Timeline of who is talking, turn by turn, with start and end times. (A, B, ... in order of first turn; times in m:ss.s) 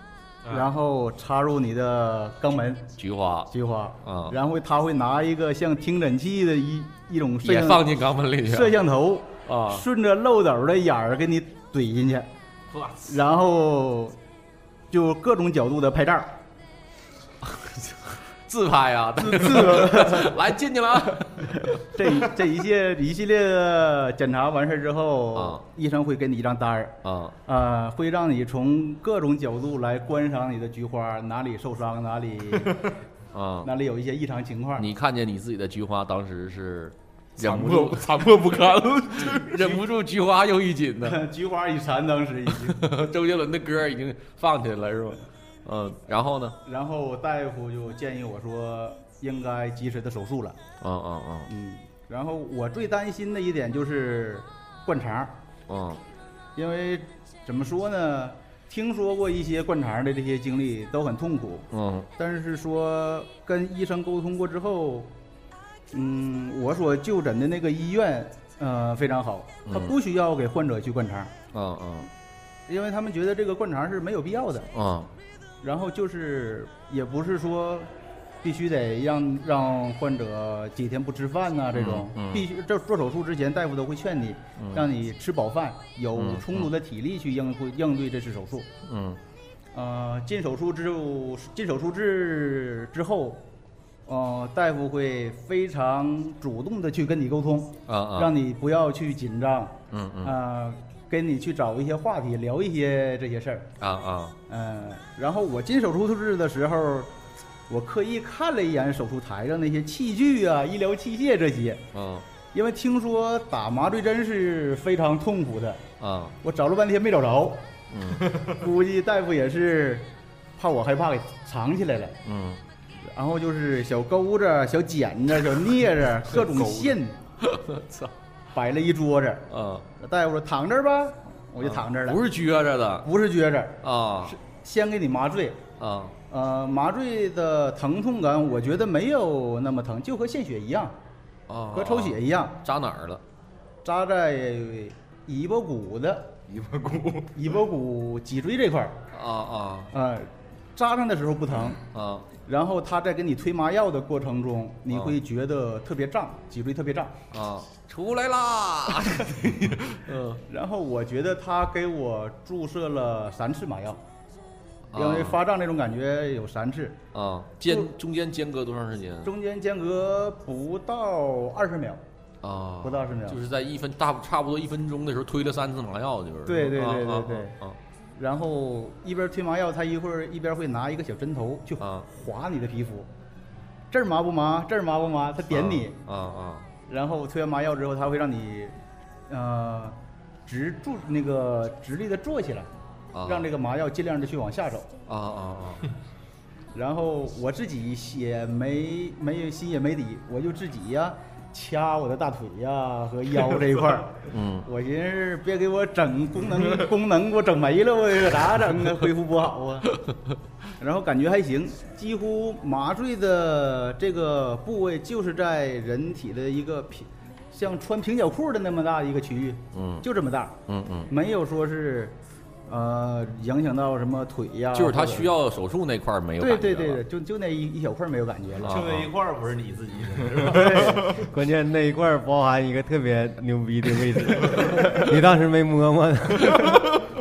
0:00.5-0:02.9 A
0:03.0-0:03.5 B
0:03.5-0:07.9 A
0:04.0-0:04.4 B
0:07.4-0:08.8 B
0:08.5-0:12.3 A
0:09.5-0:09.8 B
0:12.7-0:13.1 C
0:13.0-0:14.2 A
0:14.9-0:16.3 A
0:17.4-0:22.2 B
0:19.2-0:20.4 A
0:21.6-0:32.9 A
0:25.4-0:25.6 B
0:27.0-0:27.4 B
0:33.3-0:33.7 B
0:33.6-0:34.9 A
0:34.8-0:38.1 B
0:37.4-0:39.8 D
0:39.2-0:41.2 B
0:41.0-0:42.8 A
0:42.6-0:46.6 B
0:46.6-0:50.6 A
0:50.8-0:51.5 B
0:51.5-0:55.3 A
0:55.7-0:56.0 B
0:56.6-1:05.1 A
1:01.7-1:02.1 B
1:05.9-1:11.3 A
1:09.7-1:09.9 B
1:11.5-1:12.1 B
1:12.7-1:14.7 A
1:14.7-1:15.1 B
1:15.6-1:17.9 A
1:18.4-1:28.7 A
1:21.7-1:22.4 B
1:24.6-1:24.9 B
1:26.2-1:26.7 B
1:28.8-1:29.2 B
1:29.7-1:33.4 A
1:34.1-1:43.7 A
1:37.9-1:38.3 B
1:39.9-1:40.4 B
1:43.8-1:44.4 B
1:44.5-1:47.1 A
1:47.7-1:51.8 A
1:51.9-1:52.2 B
1:52.5-1:55.8 A
1:56.0-1:56.4 B
1:56.4-1:57.7 A
1:57.9-1:58.4 B
1:58.4-2:02.2 A
2:02.2-2:02.6 B
2:03.0-2:07.2 A
2:07.4-2:08.1 B
2:08.5-2:09.5 A
2:09.5-2:09.9 B
2:10.0-2:12.2 A
2:11.6-2:13.1 B
2:13.0-2:15.6 A
2:13.8-2:14.4 B
2:15.8-2:16.2 B
2:16.3-2:21.0 A
2:21.5-2:23.2 B
2:21.7-2:22.6 A
2:23.8-2:26.4 A
2:26.5-2:27.4 D
2:27.4-2:29.0 A
2:29.1-2:29.9 B
2:29.9-2:31.8 A
2:31.9-2:32.3 B
2:32.5-2:37.2 A
2:37.3-2:40.4 B
2:40.5-2:44.0 A
2:44.9-2:45.4 B
2:45.0-2:47.0 A
2:47.1-2:49.3 B
2:49.2-2:52.0 A
2:52.4-2:57.8 B
2:52.8-2:53.4 A
2:56.5-2:57.6 A
2:58.2-3:03.1 A
3:01.8-3:02.1 B
3:03.9-3:06.0 A
3:05.5-3:06.7 B
3:06.9-3:08.7 A
3:09.3-3:12.7 A
3:13.1-3:13.5 B
3:13.2-3:14.9 A
3:15.1-3:15.9 B
3:16.7-3:29.9 A
3:24.3-3:24.7 B
3:30.8-3:40.6 A
3:39.7-3:40.0 B
3:40.7-3:41.1 B
3:41.1-3:45.3 A
3:44.7-3:47.0 B
3:46.4-3:48.8 A
3:48.6-3:49.1 B
3:48.7-3:51.2 C
3:50.4-3:51.1 A
3:51.1-3:56.8 E